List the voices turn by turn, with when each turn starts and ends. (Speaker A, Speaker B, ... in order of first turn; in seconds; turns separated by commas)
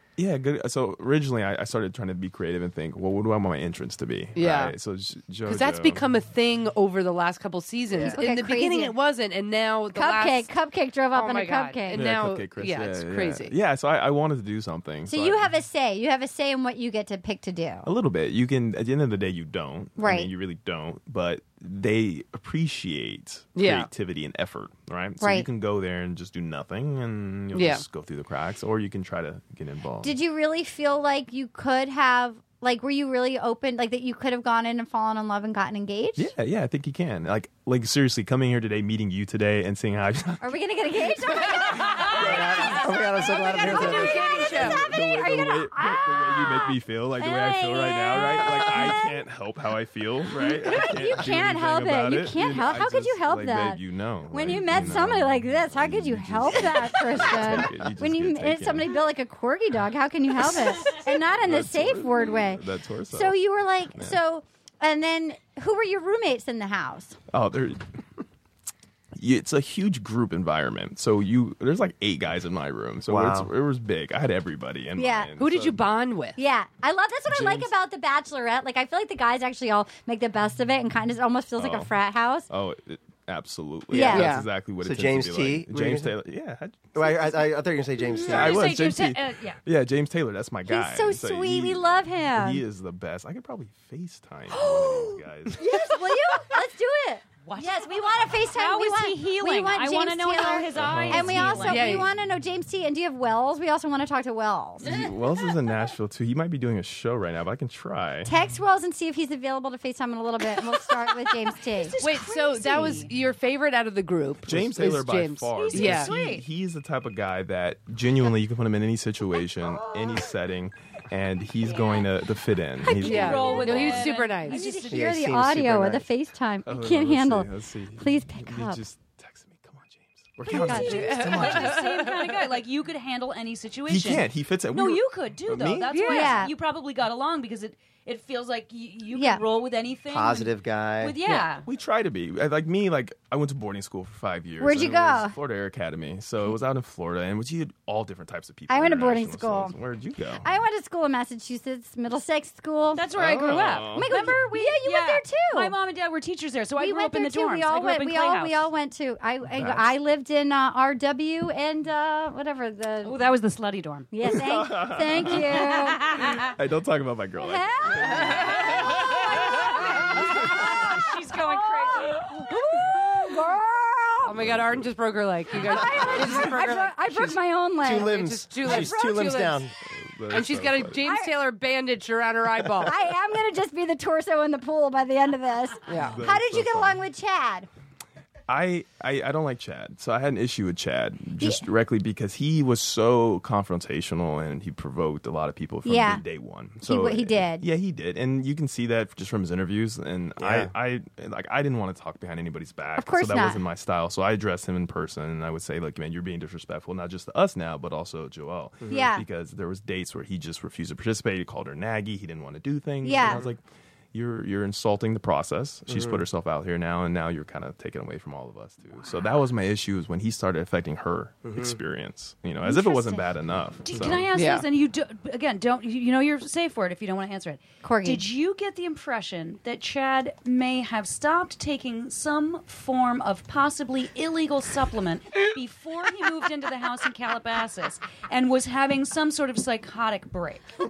Speaker A: 0.2-6.1, Speaker B: 4.3-4.8, Speaker B: 5.5-10.5, Speaker C: 7.9-8.2, Speaker D: 8.2-9.0, Speaker D: 9.9-12.1, Speaker B: 11.1-13.6, Speaker A: 11.9-15.5, Speaker D: 15.1-17.9, Speaker A: 17.8-30.1, Speaker D: 20.0-20.3, Speaker B: 23.6-23.9, Speaker D: 25.2-25.5, Speaker B: 27.5-27.8, Speaker D: 30.0-36.3, Speaker A: 36.2-40.6, Speaker D: 40.4-49.2, Speaker A: 41.5-43.0, Speaker C: 42.1-44.7, Speaker B: 43.6-44.8, Speaker A: 44.4-59.0, Speaker D: 50.4-67.2, Speaker A: 60.8-63.4, Speaker A: 67.3-67.9, Speaker A: 69.2-75.8, Speaker C: 73.1-73.5, Speaker D: 75.0-75.3, Speaker B: 75.4-76.4, Speaker D: 76.4-82.5, Speaker A: 77.3-77.7, Speaker A: 81.6-81.9, Speaker A: 82.5-87.6, Speaker D: 83.9-84.3, Speaker B: 84.0-84.5, Speaker C: 84.8-86.2, Speaker C: 87.0-88.7, Speaker E: 88.0-89.6, Speaker A: 88.3-95.7, Speaker D: 90.7-92.6, Speaker D: 95.5-104.9, Speaker E: 97.5-102.1, Speaker A: 100.8-101.7, Speaker B: 101.7-102.1, Speaker A: 104.8-108.3, Speaker D: 108.2-112.0, Speaker E: 111.6-113.1, Speaker B: 112.0-116.1, Speaker A: 114.5-124.1, Speaker E: 115.6-116.4, Speaker E: 122.8-125.0, Speaker B: 123.0-124.6, Speaker D: 123.1-123.7, Speaker D: 124.5-128.8, Speaker C: 124.9-126.1, Speaker A: 126.7-131.8, Speaker D: 130.5-131.4, Speaker E: 130.6-141.7, Speaker B: 130.7-132.4, Speaker A: 133.9-136.4, Speaker D: 135.9-136.5, Speaker D: 139.1-139.4, Speaker C: 140.1-141.2, Speaker A: 141.6-150.4, Speaker D: 144.6-145.4, Speaker D: 148.7-149.7, Speaker D: 150.4-153.1, Speaker E: 152.9-158.7, Speaker A: 153.1-154.1, Speaker D: 153.9-155.7, Speaker D: 156.8-163.2, Speaker A: 159.5-159.9, Speaker E: 163.0-164.1, Speaker D: 164.1-166.3, Speaker A: 164.2-171.0, Speaker E: 165.7-166.5, Speaker D: 167.4-174.4, Speaker E: 169.6-172.3, Speaker B: 174.2-177.0, Speaker A: 174.4-174.9, Speaker D: 175.6-178.8, Speaker C: 176.1-176.5, Speaker C: 177.1-179.7, Speaker B: 177.9-179.7, Speaker A: 179.8-181.1, Speaker B: 180.3-183.0, Speaker D: 181.0-181.3, Speaker D: 182.8-187.7, Speaker B: 185.9-186.2, Speaker A: 185.9-187.0, Speaker A: 188.5-213.6, Speaker D: 195.9-196.2, Speaker D: 196.8-197.6, Speaker C: 200.4-200.7, Speaker D: 203.0-203.6, Speaker D: 208.9-209.2, Speaker D: 213.0-213.4, Speaker C: 213.2-213.5, Speaker A: 214.1-224.3, Speaker C: 215.9-216.2, Speaker C: 221.4-221.8, Speaker D: 222.6-223.2, Speaker E: 223.9-240.7, Speaker B: 224.3-224.7, Speaker D: 227.8-228.2